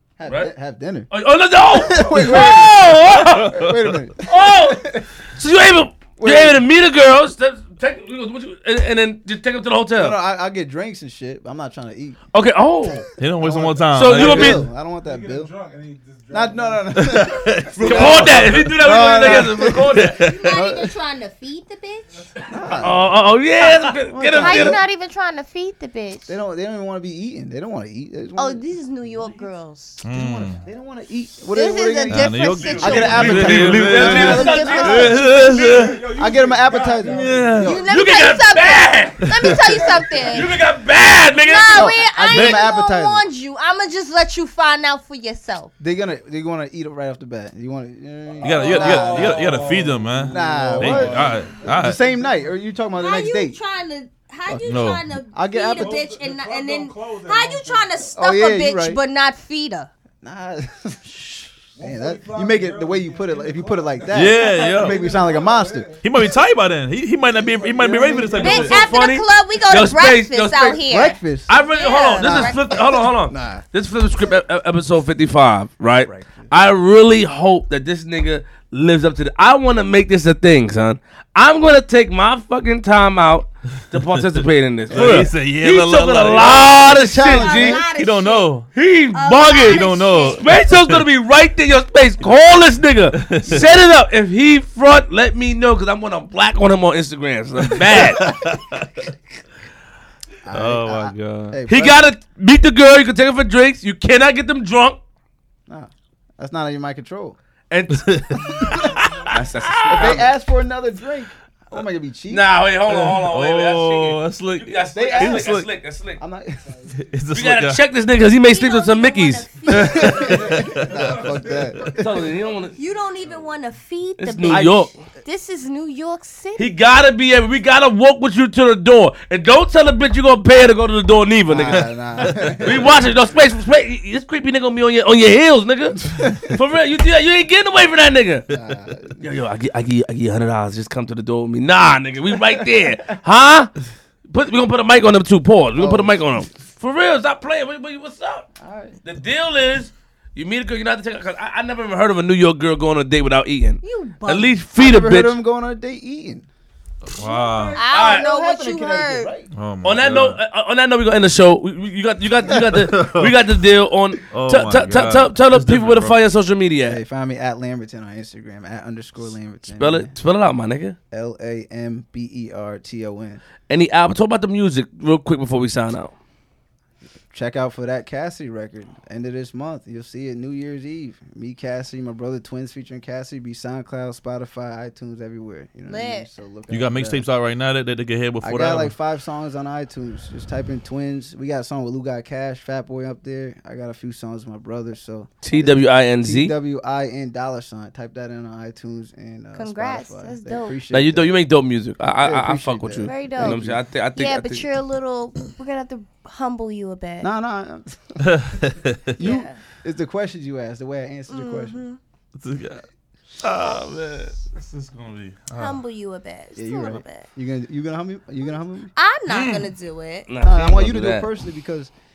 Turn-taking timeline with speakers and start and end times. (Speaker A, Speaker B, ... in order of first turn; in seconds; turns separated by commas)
Speaker A: 0.2-1.1, Speaker B: 0.2-0.5, Speaker B: 1.1-3.6, Speaker A: 1.7-5.1, Speaker C: 3.2-4.0, Speaker B: 4.2-10.2, Speaker A: 6.2-6.6, Speaker A: 9.9-12.2, Speaker B: 12.3-13.1, Speaker C: 13.2-14.7, Speaker A: 13.4-15.5, Speaker B: 13.9-14.7, Speaker D: 15.0-17.1, Speaker A: 16.3-20.9, Speaker C: 16.9-20.5, Speaker B: 17.8-20.2, Speaker E: 20.1-22.2, Speaker D: 22.1-22.9, Speaker A: 22.5-23.1, Speaker B: 22.8-24.8, Speaker A: 24.1-24.8, Speaker E: 24.3-26.3, Speaker A: 26.3-28.6, Speaker E: 28.4-30.0, Speaker C: 30.0-30.6, Speaker A: 30.0-35.3, Speaker E: 31.5-35.8, Speaker C: 32.1-36.0, Speaker B: 32.6-35.3, Speaker D: 35.1-37.7, Speaker A: 36.1-37.9, Speaker C: 37.0-37.7, Speaker E: 37.6-40.6, Speaker B: 37.8-39.3, Speaker C: 39.3-39.5, Speaker D: 39.6-40.5, Speaker B: 40.2-42.0, Speaker E: 41.4-45.7, Speaker A: 41.7-43.2, Speaker C: 42.3-42.6, Speaker A: 45.8-49.6, Speaker D: 48.3-52.5, Speaker C: 48.4-52.0, Speaker A: 50.2-53.6, Speaker E: 53.0-59.9, Speaker A: 54.5-54.8, Speaker C: 54.6-55.0, Speaker A: 55.3-56.0, Speaker D: 55.7-58.1, Speaker A: 58.1-59.0, Speaker A: 60.2-65.9, Speaker D: 61.7-66.0, Speaker C: 64.1-65.0, Speaker C: 66.0-68.8, Speaker D: 67.3-68.8, Speaker A: 67.9-68.3, Speaker E: 68.4-72.9, Speaker B: 68.4-70.8, Speaker A: 70.8-71.5, Speaker B: 71.5-87.8, Speaker A: 72.2-73.6, Speaker A: 76.0-76.5, Speaker C: 84.0-86.8, Speaker A: 84.9-85.3, Speaker A: 86.7-87.8, Speaker E: 87.2-88.5, Speaker C: 87.8-88.7, Speaker B: 88.7-98.3, Speaker E: 89.1-90.5, Speaker C: 89.6-91.0, Speaker C: 93.1-93.7, Speaker C: 97.9-99.1, Speaker A: 100.4-102.0, Speaker C: 100.5-101.6, Speaker B: 101.7-105.0, Speaker A: 105.7-107.4, Speaker B: 107.7-108.1, Speaker C: 107.9-110.2, Speaker A: 108.4-108.8, Speaker D: 108.9-109.2, Speaker B: 109.3-110.3, Speaker A: 109.9-112.5, Speaker B: 112.3-116.2, Speaker C: 112.9-115.7, Speaker A: 114.9-115.6, Speaker A: 116.2-116.7, Speaker D: 116.6-117.0, Speaker C: 117.0-117.8, Speaker B: 117.3-120.2, Speaker E: 118.4-120.5, Speaker A: 119.7-122.2, Speaker C: 119.8-121.1, Speaker D: 120.1-123.5, Speaker B: 121.9-122.7, Speaker E: 122.8-126.7, Speaker B: 124.2-125.0, Speaker A: 124.4-124.9, Speaker B: 126.6-131.9, Speaker A: 131.5-132.9, Speaker C: 132.2-132.5, Speaker B: 132.6-138.5, Speaker A: 135.9-136.6, Speaker A: 138.5-139.2, Speaker B: 139.2-143.7, Speaker B: 144.3-148.5, Speaker A: 145.8-146.4, Speaker A: 148.6-149.0, Speaker B: 149.0-155.4, Speaker E: 153.8-154.5, Speaker A: 154.8-156.5, Speaker C: 157.1-157.8, Speaker A: 157.2-159.5, Speaker E: 157.7-159.3, Speaker B: 157.9-158.3, Speaker C: 159.5-160.4, Speaker B: 159.8-167.0, Speaker C: 162.5-163.4, Speaker C: 164.3-166.2, Speaker A: 166.8-170.1, Speaker B: 169.7-171.0, Speaker A: 171.1-173.4, Speaker B: 173.7-176.1, Speaker A: 177.3-187.2, Speaker E: 185.9-186.3, Speaker C: 186.7-188.9, Speaker A: 188.4-201.4, Speaker B: 195.4-196.5, Speaker E: 199.5-200.8, Speaker B: 200.9-204.7, Speaker A: 202.2-203.8, Speaker E: 203.0-207.3, Speaker A: 207.2-208.3, Speaker C: 208.2-209.3, Speaker A: 209.1-211.8, Speaker E: 209.2-209.6, Speaker E: 211.3-212.0, Speaker C: 212.3-212.8, Speaker C: 213.4-215.8, Speaker E: 215.6-217.3, Speaker A: 216.6-218.9, Speaker E: 218.9-220.3, Speaker C: 219.3-219.7, Speaker B: 220.3-221.3, Speaker A: 220.4-221.9